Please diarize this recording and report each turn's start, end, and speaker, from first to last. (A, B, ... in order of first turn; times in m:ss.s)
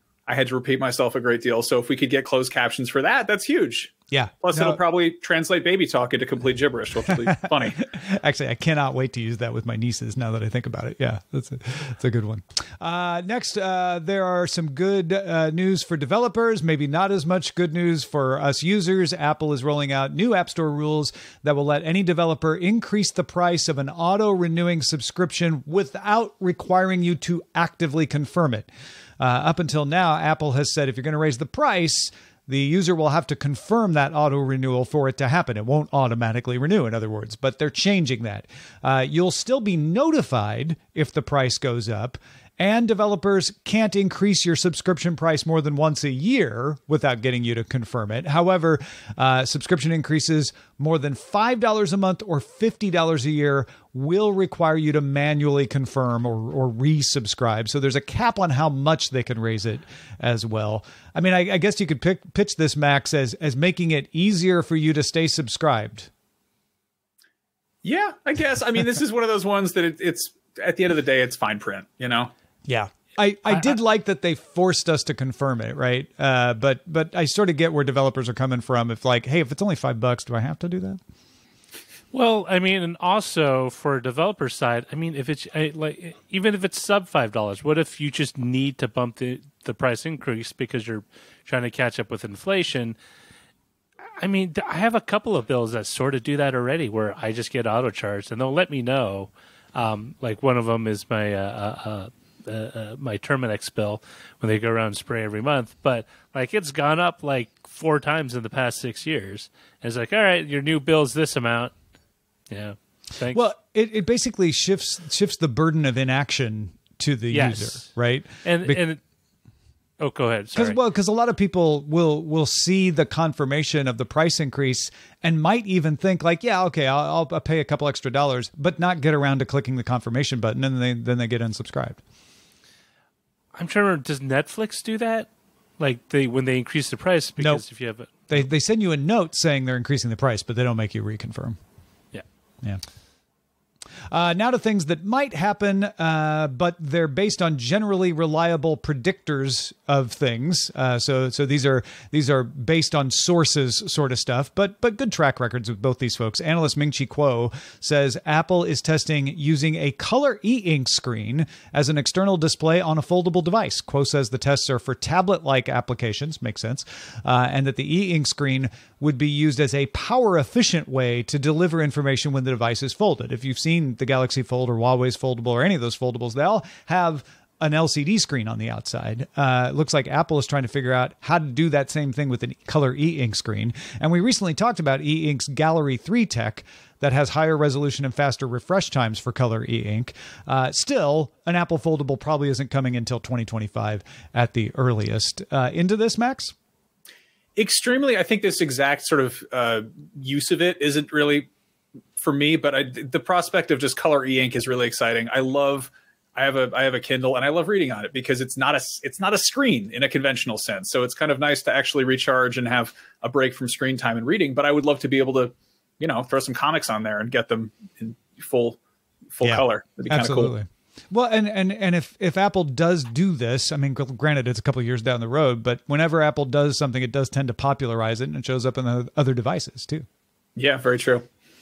0:00.3-0:07.8 A
0:04.1-0:04.8 B
0:07.1-0:28.7 B
0:29.2-1:06.1 B
1:07.8-1:12.3 A
1:12.7-1:21.0 B
1:22.1-1:33.0 C
1:34.2-1:51.7 C
1:52.5-1:53.4 C
1:53.3-1:58.8 B
1:57.3-1:57.9 C
1:58.4-1:59.0 C
2:00.0-2:00.8 C
2:00.5-2:12.0 B
2:13.6-2:18.2 C
2:18.3-2:21.6 B
2:24.1-3:16.5 B
3:17.6-3:21.5 A
3:22.2-3:38.8 A
3:39.3-3:40.6 A
3:39.4-3:50.1 B
3:50.6-3:51.2 A